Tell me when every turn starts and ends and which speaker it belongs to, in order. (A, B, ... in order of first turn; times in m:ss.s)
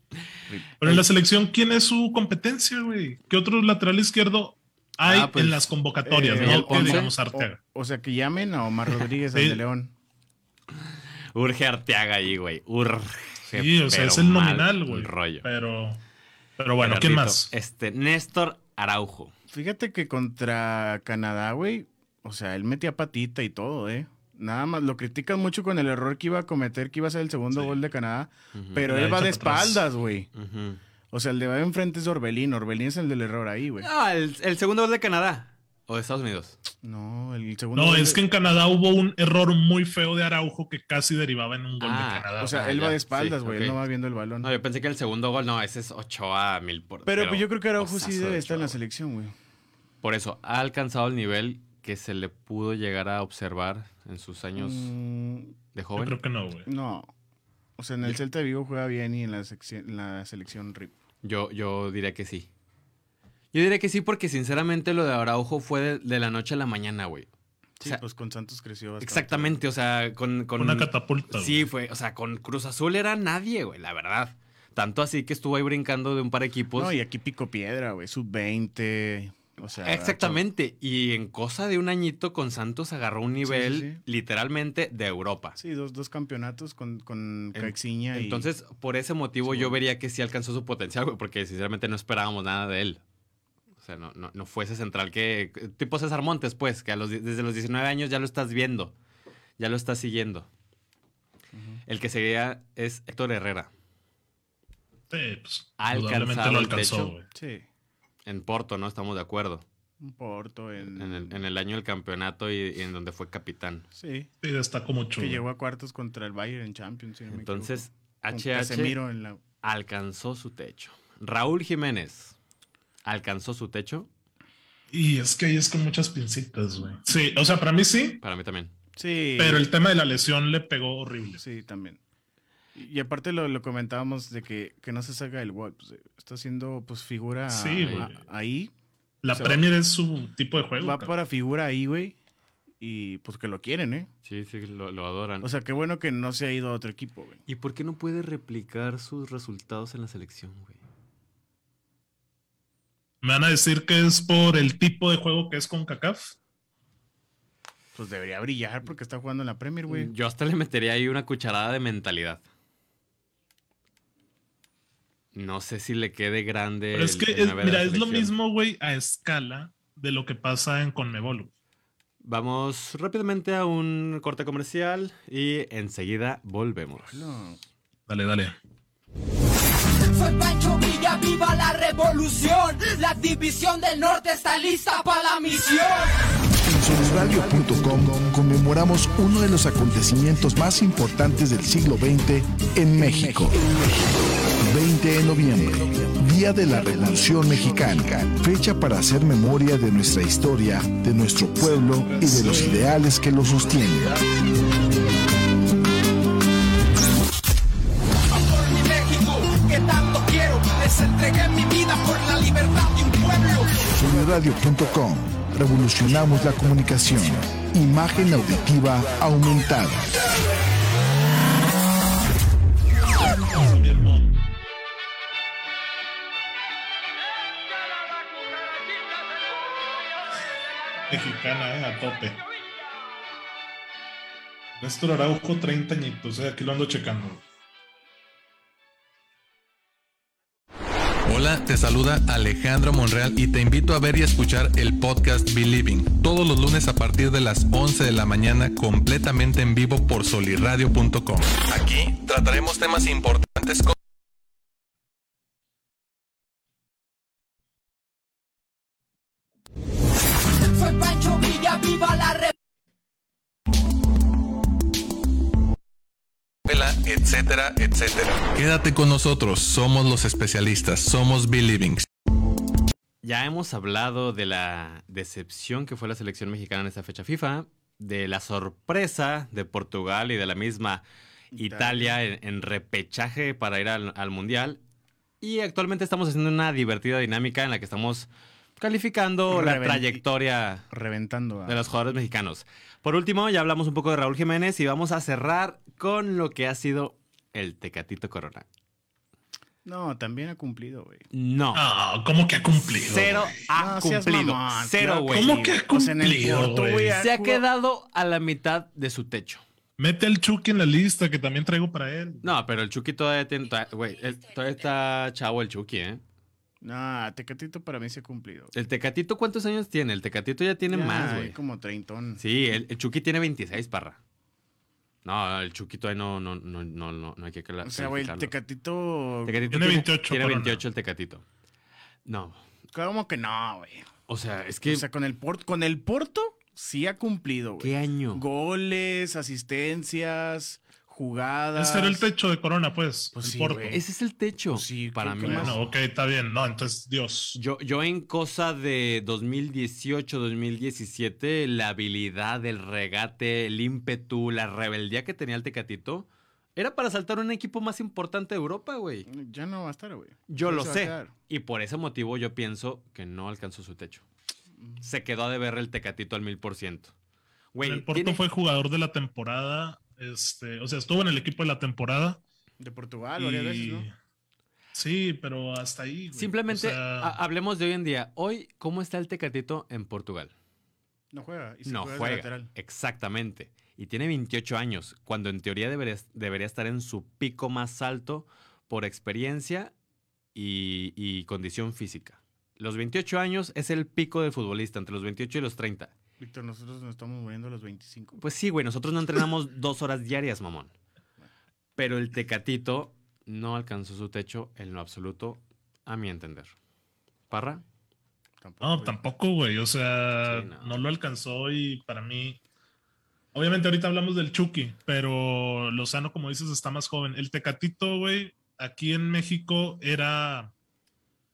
0:00.5-0:01.0 A
0:00.8-0:07.6 B
0:05.0-0:05.7 C
0:06.0-0:09.9 A
0:06.4-0:07.1 C
0:09.3-0:09.6 B
0:10.8-0:15.5 C
0:13.5-0:16.0 B
0:16.6-0:17.5 B
0:16.8-0:19.3 C
0:19.5-0:30.3 A
0:28.5-0:28.9 C
0:28.9-0:29.9 B
0:30.3-0:30.8 C
0:31.1-0:33.9 A
0:33.8-0:36.6 C
0:36.8-0:38.2 A
0:37.8-0:42.6 B
0:41.8-0:43.8 C
0:42.4-0:44.5 A
0:44.4-0:48.8 C
0:47.1-0:49.4 A
0:50.0-0:54.9 C
0:54.6-0:55.6 A
0:55.7-0:56.2 C
0:56.0-0:56.7 B
0:56.7-0:57.1 A
0:57.8-1:00.9 A
1:01.2-1:02.5 C
1:03.5-1:07.3 C
1:07.8-1:09.6 A
1:09.0-1:16.9 C
1:10.6-1:11.7 B
1:16.8-1:20.4 A
1:19.8-1:25.6 C
1:23.4-1:24.0 A
1:25.6-1:28.5 A
1:27.5-1:33.0 C
1:29.4-1:29.8 A
1:33.8-1:39.0 C
1:39.6-1:40.5 C
1:41.5-1:41.8 A
1:41.9-1:43.7 C
1:45.1-1:47.3 B
1:45.8-1:47.1 C
1:47.3-1:47.7 A
1:48.2-1:49.6 C
1:50.0-1:51.4 A
1:50.8-1:53.9 C
1:53.9-1:54.3 A
1:54.4-1:55.4 B
1:55.2-1:59.4 A
1:57.3-1:59.0 C
1:59.6-2:02.4 C
2:03.0-2:04.1 C
2:04.9-2:08.2 B
2:08.2-2:08.7 C
2:09.0-2:09.7 A
2:09.4-2:11.4 B
2:11.4-2:12.0 A
2:12.8-2:18.7 A
2:17.5-2:18.1 B
2:17.8-2:18.1 C
2:19.2-2:21.1 B
2:19.3-2:19.6 A
2:20.8-2:22.2 A
2:22.8-2:24.1 A
2:24.2-2:25.5 C
2:25.4-2:27.4 A
2:27.5-2:30.8 C
2:33.2-2:36.4 B
2:37.9-2:40.1 A
2:39.9-2:42.4 C
2:45.3-2:48.3 C
2:46.9-2:51.5 B
2:52.2-2:57.2 C
2:57.0-2:57.6 A
2:58.1-2:58.6 B
3:00.0-3:06.2 D
3:06.6-3:13.7 E
3:14.6-3:24.2 E
3:21.7-3:23.0 B
3:28.3-3:33.8 D
3:33.9-3:40.1 E
3:43.6-3:44.4 B
3:51.1-3:52.4 B
3:54.8-3:57.4 B
4:01.3-4:14.0 F
4:20.6-4:22.5 D
4:26.7-4:32.1 F
4:33.2-4:41.0 C
4:41.5-4:42.2 A
4:41.6-4:44.8 C
4:45.4-4:50.9 C
4:49.5-4:50.2 A
4:50.9-4:51.9 A
4:51.7-4:58.7 C
4:59.8-5:01.2 A
5:01.3-5:01.8 C
5:01.8-5:03.6 B
5:03.0-5:05.6 C
5:03.7-5:07.6 A
5:05.3-5:07.2 B
5:07.2-5:09.6 C
5:10.0-5:12.5 B
5:12.4-5:16.2 C
5:16.8-5:18.7 A
5:18.7-5:21.6 C
5:20.9-5:22.4 A
5:22.4-5:24.2 C
5:25.2-5:28.5 C
5:27.8-5:29.8 A
5:29.4-5:31.4 C
5:29.7-5:30.8 B
5:32.3-5:32.6 C
5:32.9-5:34.1 A
5:34.3-5:35.0 C
5:34.8-5:42.3 A
5:37.8-5:38.4 C
5:41.8-5:44.0 B
5:43.3-5:44.0 A
5:43.9-5:45.8 C
5:44.7-5:45.8 A
5:45.4-5:47.6 B
5:47.5-5:59.3 C
5:59.3-6:01.3 A
6:00.5-6:04.2 C
6:04.8-6:05.0 A
6:05.0-6:07.1 C
6:07.7-6:08.4 C
6:07.8-6:12.4 B
6:12.8-6:14.1 A
6:13.4-6:14.2 B
6:14.9-6:17.4 B
6:16.3-6:20.5 C
6:21.3-6:22.7 A
6:21.9-6:29.9 C
6:30.6-6:36.1 C
6:36.4-6:38.4 A
6:38.4-6:40.9 C
6:42.0-6:46.7 C
6:47.5-6:47.8 C
6:48.6-6:49.2 A
6:48.8-6:52.6 B
6:50.4-6:51.0 C
6:53.5-7:00.7 B